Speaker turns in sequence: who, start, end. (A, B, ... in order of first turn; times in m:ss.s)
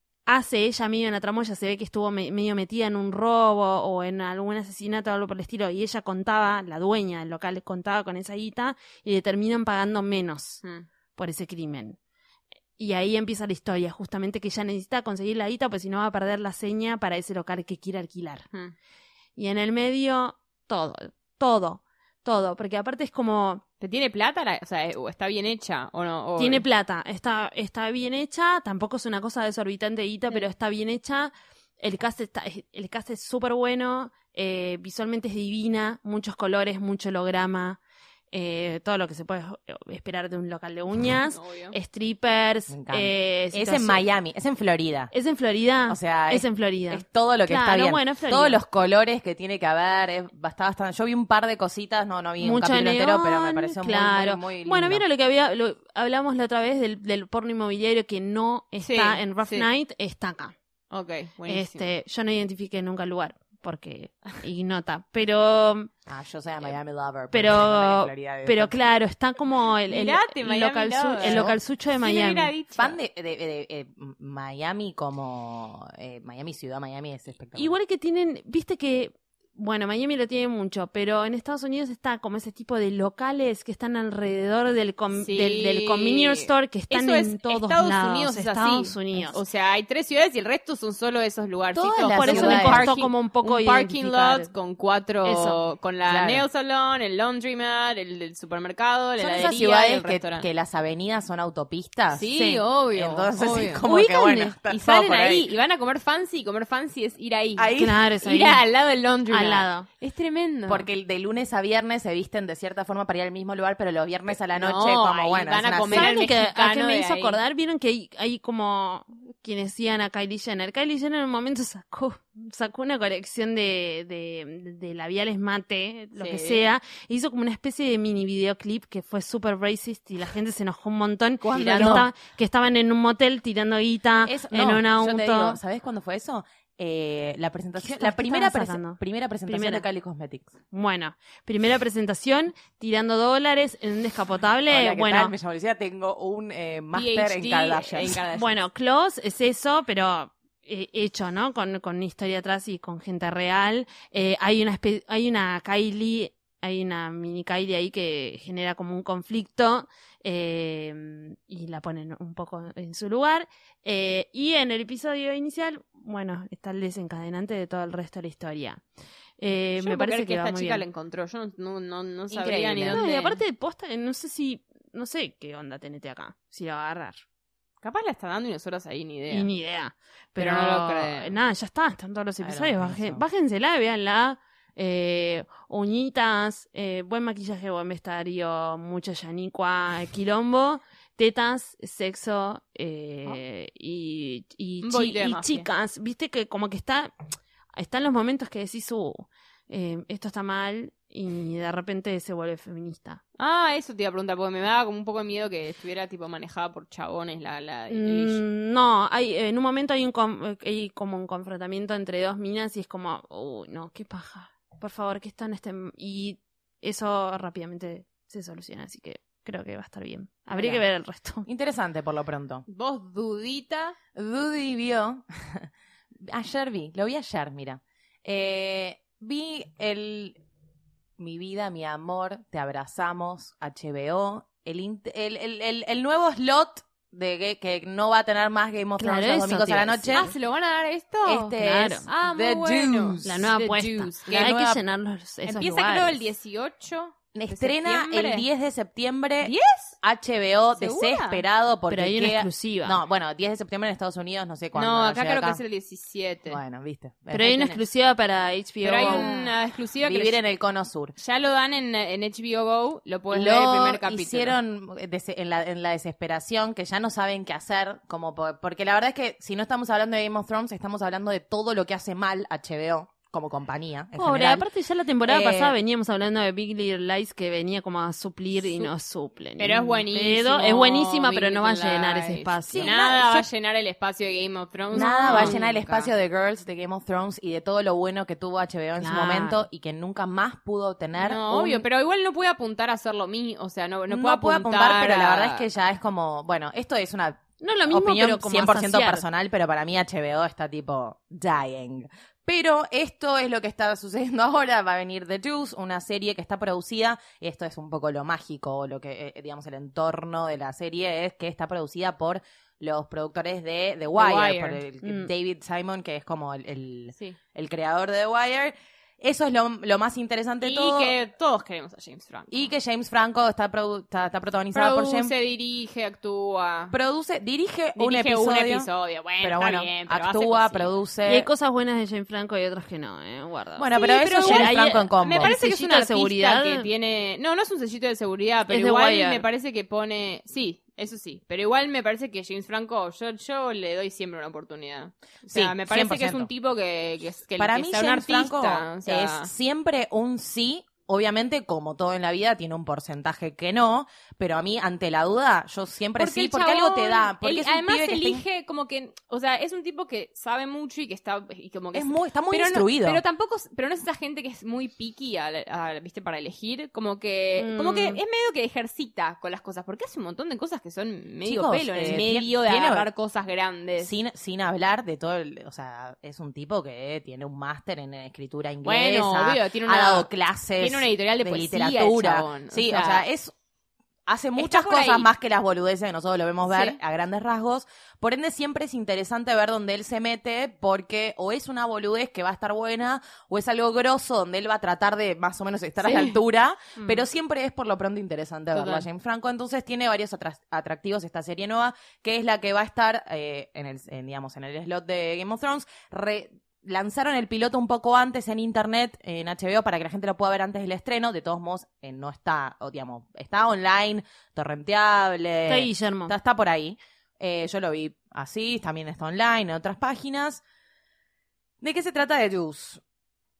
0:00.3-0:10.6 A
0:11.2-0:12.0 A
0:12.8-0:18.5 A
0:19.4-0:23.6 A
0:23.8-0:26.6 B
0:26.4-0:37.8 A
0:38.3-0:44.0 A
0:41.3-0:41.7 B
0:42.7-0:45.1 C
0:45.1-0:48.6 A
0:45.9-0:55.0 C
0:52.4-1:00.5 A
0:58.8-0:59.7 B
1:00.9-1:01.9 B
1:01.5-1:05.9 A
1:06.1-1:08.8 C
1:07.3-1:12.5 A
1:09.9-1:13.0 B
1:11.2-1:11.6 C
1:12.8-1:17.7 C
1:17.5-1:29.4 A
1:25.2-1:40.5 B
1:31.7-1:32.9 C
1:32.0-1:34.5 A
1:35.2-1:35.6 A
1:36.0-1:36.4 C
1:39.2-1:42.3 C
1:42.1-1:43.8 B
1:42.3-1:42.6 A
1:42.9-1:45.5 C
1:43.8-1:44.5 A
1:44.7-1:50.8 B
1:47.6-1:48.0 C
1:47.8-1:48.6 A
1:49.3-1:49.9 A
1:50.7-1:56.2 C
1:54.5-1:57.4 B
1:55.9-2:15.6 A
2:06.2-2:06.7 B
2:11.4-2:12.1 C
2:11.5-2:12.0 B
2:14.2-2:20.5 C
2:17.8-2:19.8 A
2:20.7-2:25.3 A
2:24.7-2:28.2 C
2:26.9-2:28.6 B
2:28.3-2:48.8 A
2:49.4-2:50.8 A
2:49.8-2:53.4 B
2:52.3-2:53.0 C
2:52.9-2:57.2 A
2:57.8-2:59.5 B
2:59.3-3:17.1 A
3:00.4-3:01.3 B
3:02.4-3:03.2 C
3:14.8-3:15.7 B
3:17.7-3:23.2 A
3:23.4-3:28.4 B
3:27.9-3:41.5 A
3:40.5-3:40.8 C
3:41.4-3:42.6 C
3:42.6-3:44.0 B
3:44.1-3:45.7 C
3:46.2-3:50.4 C
3:51.2-4:00.3 C
3:59.0-4:00.3 A
4:00.1-4:01.5 B
4:01.2-4:03.5 C
4:01.6-4:02.1 A
4:02.0-4:04.6 B
4:03.2-4:06.3 A
4:04.3-4:04.8 C
4:05.4-4:08.4 B
4:07.3-4:15.6 C
4:09.4-4:10.0 B
4:10.7-4:11.4 B
4:11.9-4:13.0 A
4:14.7-4:16.6 B
4:16.5-4:17.8 C
4:17.3-4:19.4 A
4:18.8-4:20.4 B
4:19.0-4:19.4 C
4:20.0-4:21.1 C
4:21.2-4:24.6 B
4:23.3-4:34.6 C
4:34.2-4:42.9 A
4:35.2-4:35.8 C
4:38.6-4:38.9 B
4:39.6-4:46.1 B
4:42.7-4:43.5 C
4:44.9-4:51.8 C
4:44.9-4:45.6 A
4:49.0-4:49.6 A
4:51.2-4:55.6 B
4:54.1-5:21.1 C
4:57.6-4:59.2 A
5:14.1-5:14.8 B
5:15.0-5:15.3 A
5:20.6-5:22.7 B
5:22.5-5:25.3 C
5:24.7-5:27.0 B
5:26.9-5:28.9 C
5:28.0-5:30.9 B
5:29.4-5:31.5 C
5:31.2-5:36.9 A
5:33.8-5:35.5 C
5:33.9-5:49.5 B
5:38.7-5:39.4 A
5:45.5-5:46.5 C
5:47.6-5:58.4 C
5:56.2-6:14.1 B
6:01.9-6:03.2 C
6:07.6-6:08.2 A
6:11.4-6:13.1 C
6:14.0-6:23.5 C
6:18.8-6:23.2 B
6:24.3-7:00.6 C
6:24.6-6:25.3 B
6:26.7-6:27.0 B
6:36.0-6:36.4 B
6:38.7-6:39.0 B
6:55.7-6:56.3 A
7:01.8-7:03.0 C